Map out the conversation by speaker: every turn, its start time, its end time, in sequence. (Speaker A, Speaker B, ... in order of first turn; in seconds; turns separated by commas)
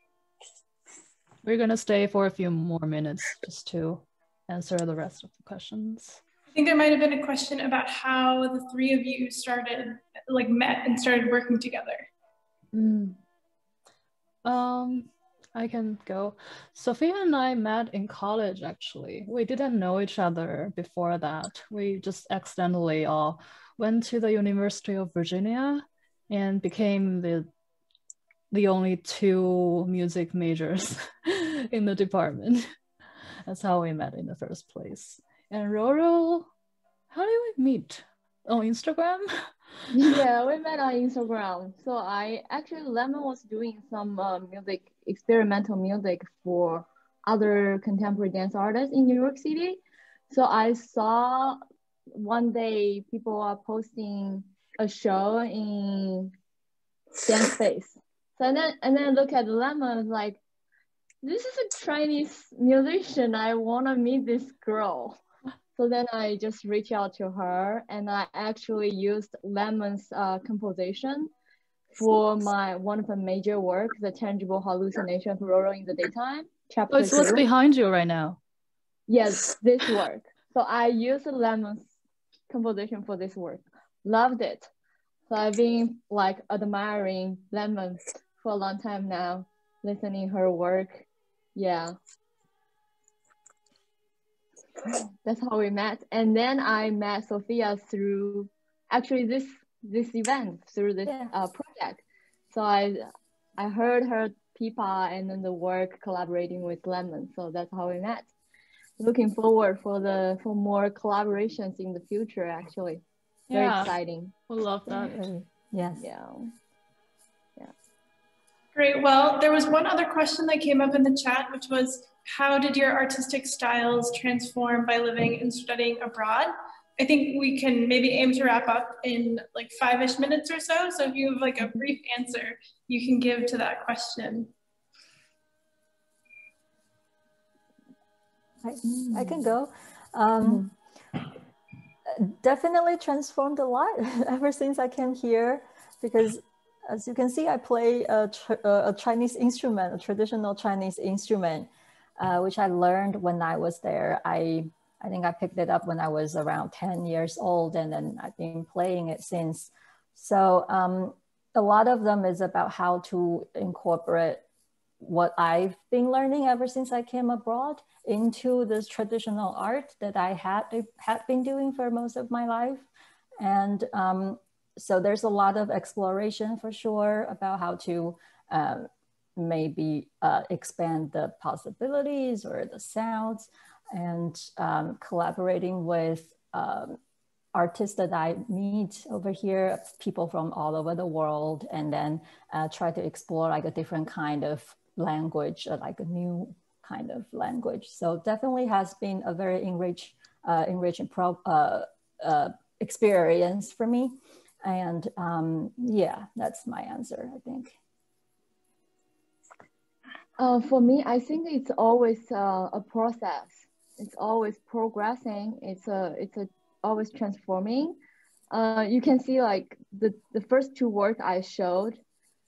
Speaker A: 1.4-6.2, Speaker B: 6.5-12.1, Speaker A: 12.7-13.2, Speaker A: 14.4-27.5, Speaker A: 28.5-32.6, Speaker A: 33.5-36.5, Speaker A: 37.1-39.3, Speaker C: 39.9-51.6, Speaker C: 52.1-56.3, Speaker C: 57.2-60.4, Speaker C: 61.2-65.2, Speaker C: 65.8-71.3, Speaker C: 71.9-77.4, Speaker A: 76.9-78.4, Speaker C: 79.1-81.9, Speaker C: 82.5-84.7, Speaker C: 85.3-92.0, Speaker C: 94.9-108.3, Speaker D: 101.0-101.3, Speaker C: 109.0-114.3, Speaker A: 113.5-113.9, Speaker A: 114.5-115.2, Speaker D: 114.9-116.0, Speaker C: 116.0-116.5, Speaker B: 118.7-134.5, Speaker D: 138.6-140.7, Speaker C: 139.0-139.4, Speaker D: 142.1-164.4, Speaker D: 165.0-172.9, Speaker D: 173.4-187.0, Speaker D: 187.5-207.7, Speaker C: 210.4-218.0, Speaker C: 218.5-222.0